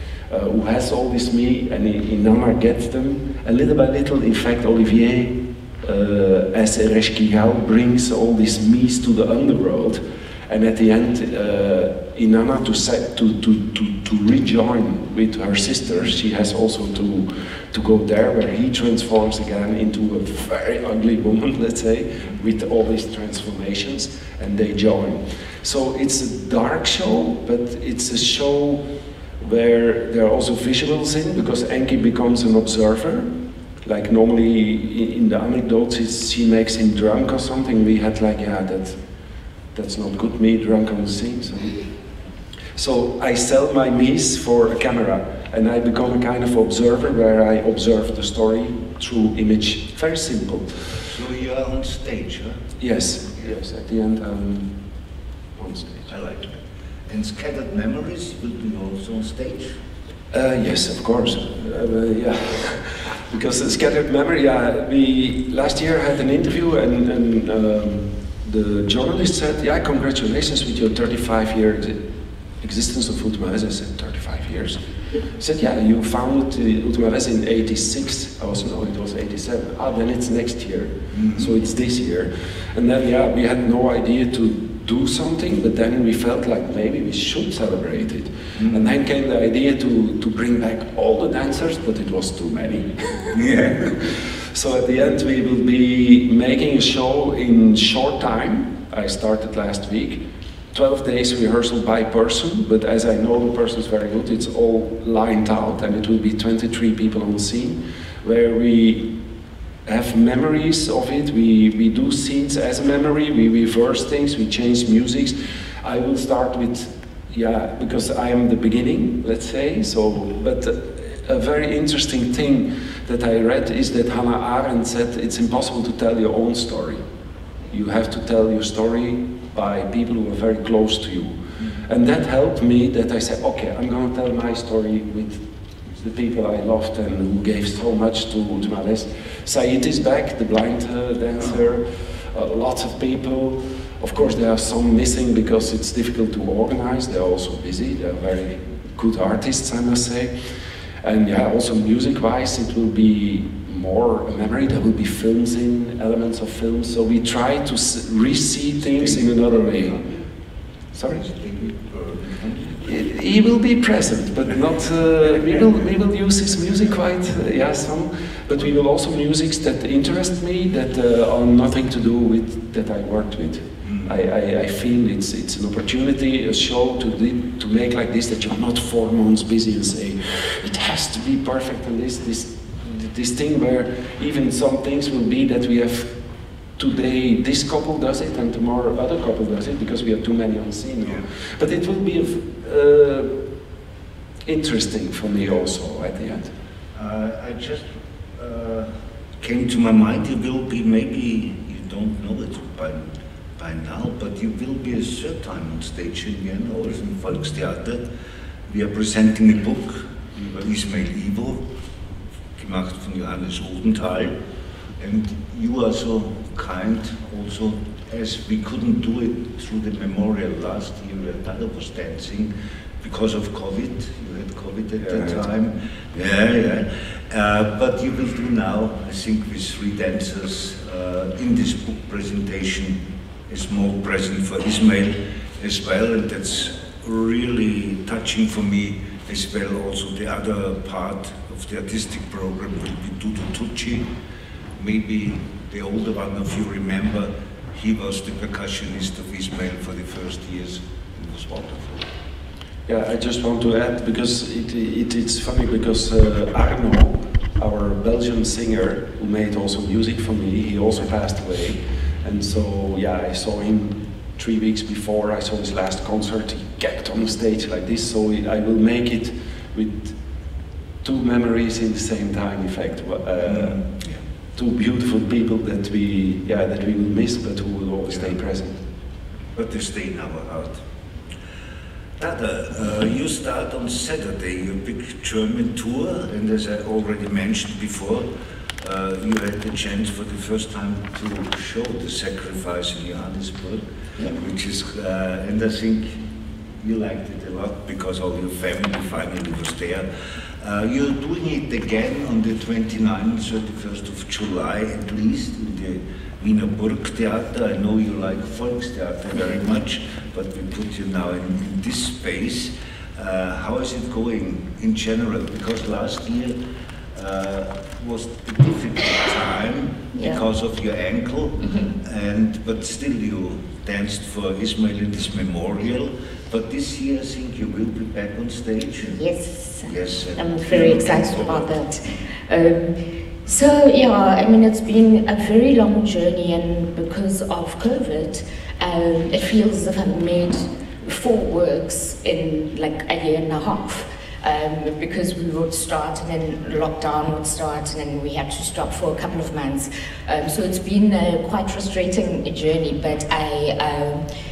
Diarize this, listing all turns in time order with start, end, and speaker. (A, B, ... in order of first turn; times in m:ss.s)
0:00.3-0:28.8 A
0:29.4-0:33.3 A
0:33.8-0:39.0 A
0:39.7-0:41.8 A
0:42.8-0:50.7 A
0:51.1-0:52.6 B
0:52.8-0:54.7 A
0:55.6-0:56.1 A
0:56.1-0:59.7 B
1:00.3-1:12.0 A
1:12.6-1:14.8 A
1:15.4-1:33.3 A
1:21.1-1:21.5 B
1:28.6-1:28.9 B
1:33.3-1:34.0 B
1:34.5-1:40.2 A
1:40.7-1:49.0 A
1:49.8-2:07.0 A
2:07.7-2:11.3 A
2:11.8-2:30.3 A
2:31.0-2:40.0 A
2:39.0-2:39.2 B
2:40.9-2:41.2 A
2:41.0-2:42.8 B
2:42.8-3:06.1 A
3:06.8-3:13.3 A
3:14.4-3:16.5 A
3:16.9-3:17.9 B
3:18.4-3:18.9 B
3:19.4-3:23.0 B
3:23.6-3:28.0 B
3:28.7-3:31.6 B
3:32.6-3:34.3 B
3:35.0-3:42.5 B
3:43.0-3:53.0 B
3:53.5-4:04.0 B
4:04.8-4:12.1 B
4:12.9-4:30.1 A
4:31.0-4:33.8 A
4:33.4-4:34.2 B
4:34.6-4:38.8 A
4:39.5-4:40.8 B
4:42.2-4:48.2 B
4:48.8-4:56.2 B
4:56.8-5:00.0 B
5:00.6-5:16.5 B
5:17.1-5:29.2 B
5:20.1-5:20.4 C
5:29.0-5:32.9 C
5:29.8-5:31.7 B
5:33.4-5:54.2 C